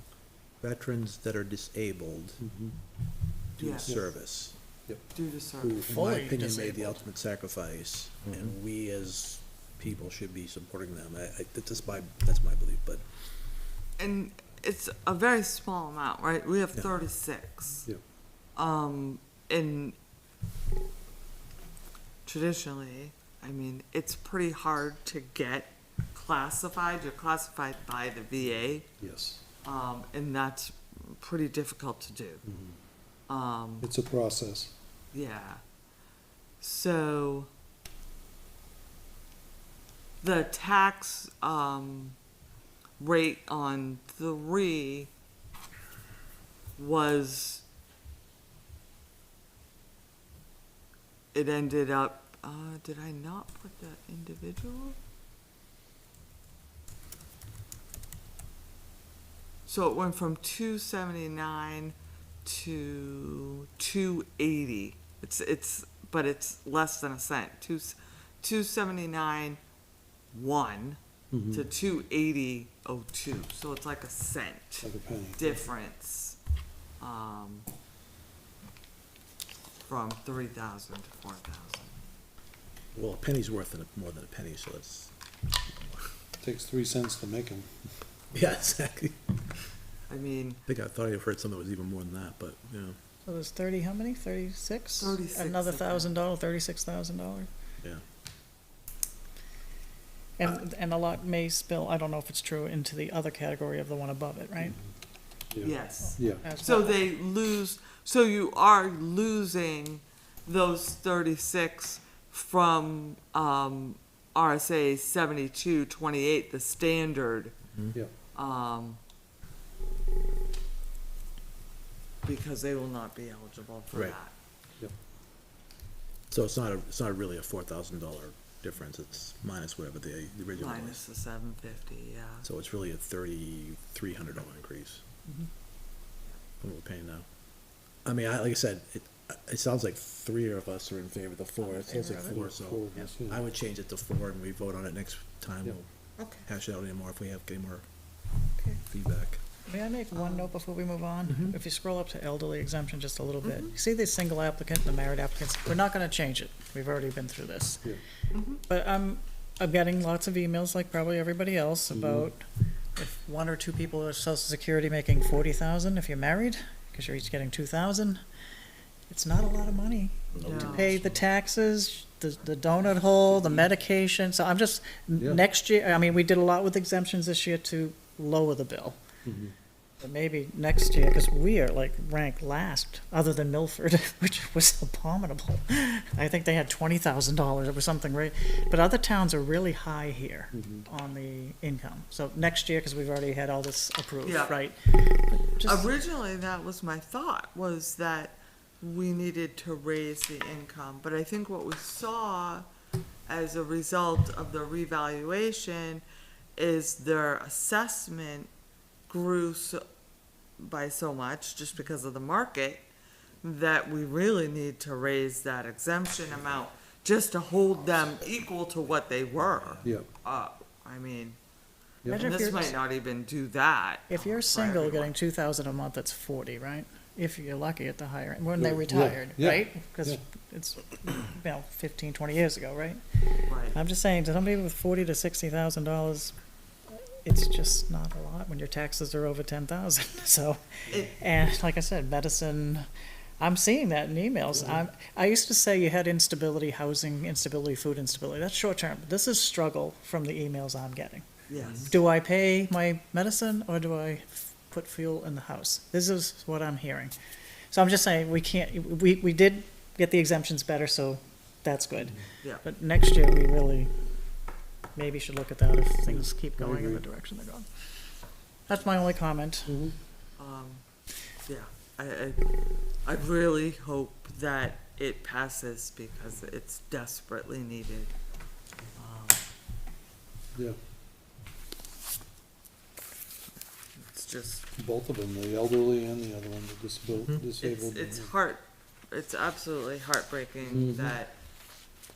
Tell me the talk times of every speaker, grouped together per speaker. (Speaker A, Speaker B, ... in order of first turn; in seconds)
Speaker A: 0.6-2.4, 3.5-4.6, 5.6-13.0, 82.9-85.1, 85.7-86.0, 88.3-89.2, 90.7-93.0, 123.9-124.2, 126.3-131.0, 132.4-135.0, 136.6-137.3, 138.0-145.9, 146.4-147.8, 148.8-149.4, 170.3-171.0, 251.6-251.9
Speaker B: 2.4-2.8, 3.8-4.3, 4.9-5.1, 8.3-8.5, 29.0-29.4, 32.4-32.8, 33.8-34.7, 71.3-71.7, 74.8-75.6, 86.4-88.1, 104.6-104.9, 105.5-106.4, 142.3-143.4, 161.9-162.3, 179.2-179.5, 190.5-190.8, 228.6-230.2, 244.5-244.8, 266.1-267.0, 269.6-269.9, 284.8-288.3, 290.7-291.2
Speaker C: 3.6-4.0, 5.1-7.0, 14.0-17.9, 18.6-20.0, 22.2-28.9, 29.6-32.4, 33.3-33.9, 35.1-35.6, 36.6-37.5, 40.2-42.2, 43.0-45.1, 46.8-47.6, 51.3-55.0, 59.6-69.6, 70.3-76.4, 77.0-77.7, 79.8-82.0, 90.1-90.6, 95.0-96.1, 105.6-117.6, 118.3-119.0, 122.2-124.3, 130.6-132.4, 146.2-146.4, 148.6-148.8, 150.1-150.5, 153.4-153.7, 158.3-158.6, 170.4-171.0, 194.2-194.7, 195.6-202.7, 203.3-206.0, 206.6-208.5, 209.1-209.8, 210.6-212.9, 213.4-221.4, 222.1-225.1, 233.5-233.8, 251.5-251.9, 270.4-270.8, 271.5-272.4, 273.0-278.1, 278.9-279.4, 283.9-284.6, 287.6-291.4
Speaker D: 5.9-6.7, 93.2-97.5, 100.4-104.8, 106.0-107.1, 141.6-142.4, 149.7-157.9, 158.7-162.4, 162.9-168.2, 169.1-179.0, 180.0-195.9, 222.1-222.7, 224.1-233.0, 233.7-236.3, 237.1-242.8, 243.4-251.3, 251.8-257.1, 257.7-263.9, 264.9-267.7, 268.7-269.8